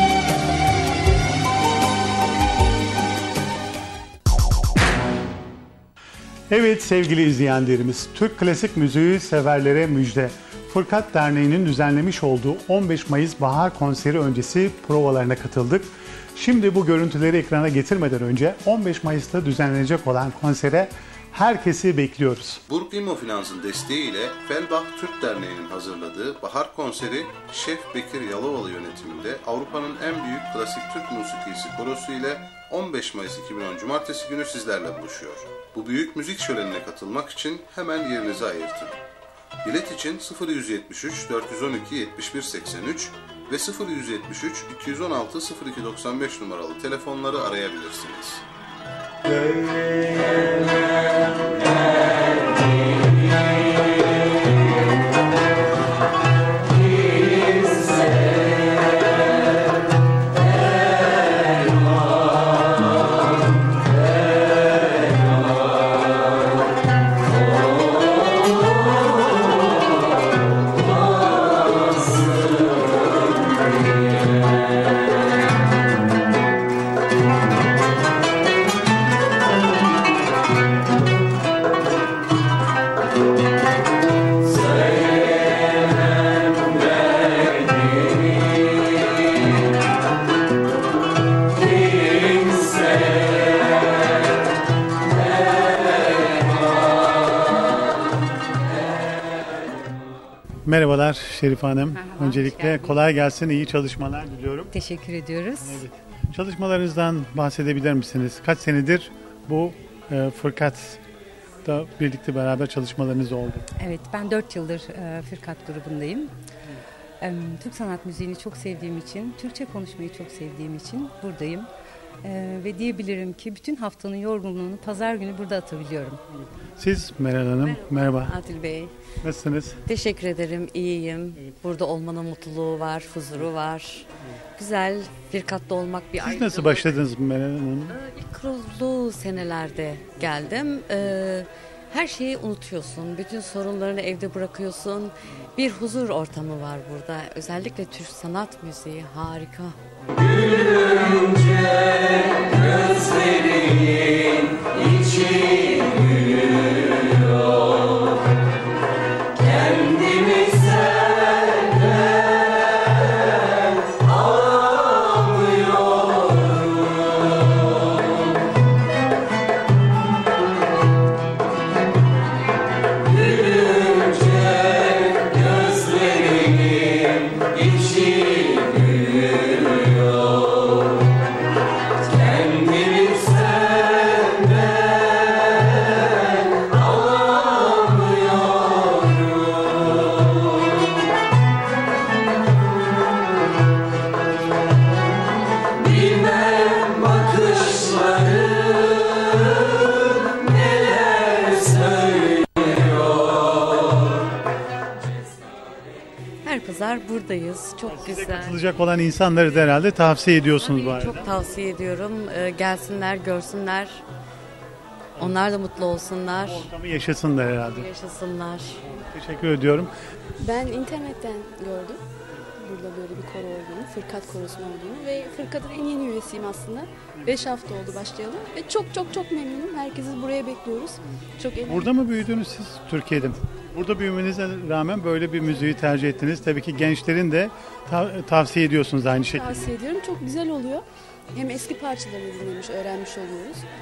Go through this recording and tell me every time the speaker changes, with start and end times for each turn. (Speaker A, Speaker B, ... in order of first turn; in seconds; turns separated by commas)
Speaker A: 6.5-22.6, Speaker B: 22.7-39.0, Speaker B: 39.6-48.4, Speaker A: 100.7-104.7, Speaker C: 101.9-103.0, Speaker C: 104.7-105.8, Speaker A: 105.6-111.0, Speaker A: 111.6-113.7, Speaker C: 113.8-116.3, Speaker C: 117.2-121.7, Speaker C: 122.2-126.2, Speaker A: 126.8-128.3, Speaker D: 127.6-128.9, Speaker A: 129.2-129.8, Speaker D: 129.9-137.0, Speaker A: 136.2-137.9, Speaker D: 137.9-149.8, Speaker D: 206.4-208.6, Speaker A: 207.9-211.3, Speaker D: 210.6-214.0, Speaker D: 215.2-216.7, Speaker A: 216.4-217.9, Speaker D: 217.5-218.8, Speaker A: 218.8-219.9, Speaker E: 220.4-222.0, Speaker E: 222.6-232.0, Speaker A: 231.7-239.7, Speaker E: 239.2-243.6